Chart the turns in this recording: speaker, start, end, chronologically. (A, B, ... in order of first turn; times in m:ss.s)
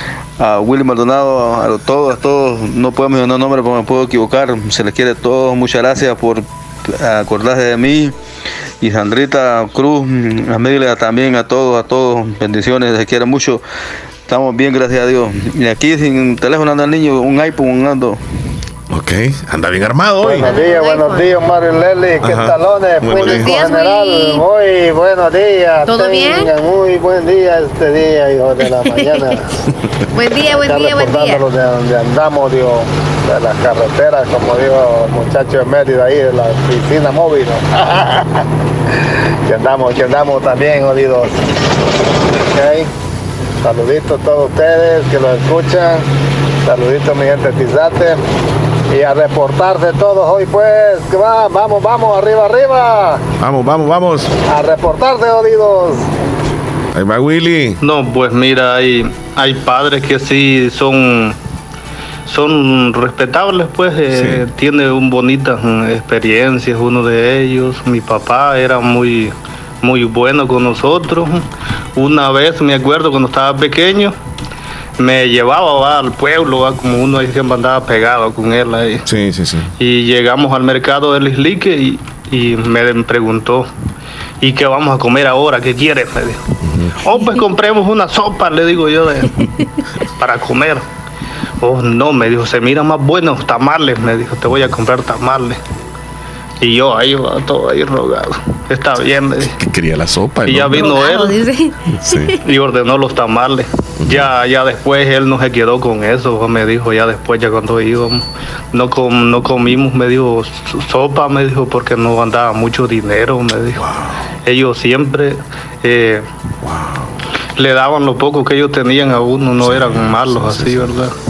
0:00.4-0:08.2 A
0:08.8-0:13.6 A
0:14.3-0:18.2 A
0:18.9-0:20.5 B
0:20.2-0:29.4 C
0:20.4-0:21.3 D
0:22.2-0:23.6 B
0:23.2-0:24.4 D
0:25.9-0:26.5 D
0:28.6-0:29.3 D
0:30.1-0:31.4 D
0:30.5-0:38.4 C
0:39.5-0:41.4 C
0:42.4-0:42.9 C
0:43.6-0:46.0 C
0:46.7-0:48.2 C
0:48.9-0:53.2 C
0:53.4-0:54.3 B
0:54.5-0:56.1 C
0:56.9-0:57.8 B
0:57.8-1:01.4 E
1:02.3-1:11.4 E
1:04.1-1:04.4 B
1:12.0-1:14.1 E
1:15.0-1:19.0 E
1:19.1-1:19.7 B
1:19.8-1:23.7 E
1:24.4-1:26.4 E
1:26.6-1:26.9 B
1:27.0-1:29.3 E
1:30.2-1:30.8 E
1:31.6-1:35.6 E
1:36.6-1:39.5 E
1:39.4-1:40.9 B
1:40.5-1:41.4 E
1:40.7-1:42.3 D
1:41.9-1:42.3 B
1:42.4-1:53.8 E
1:44.0-1:44.3 B
1:53.8-1:54.2 B
1:54.5-1:56.3 E
1:56.6-1:57.2 B
1:57.6-2:01.1 E
1:59.6-2:01.0 B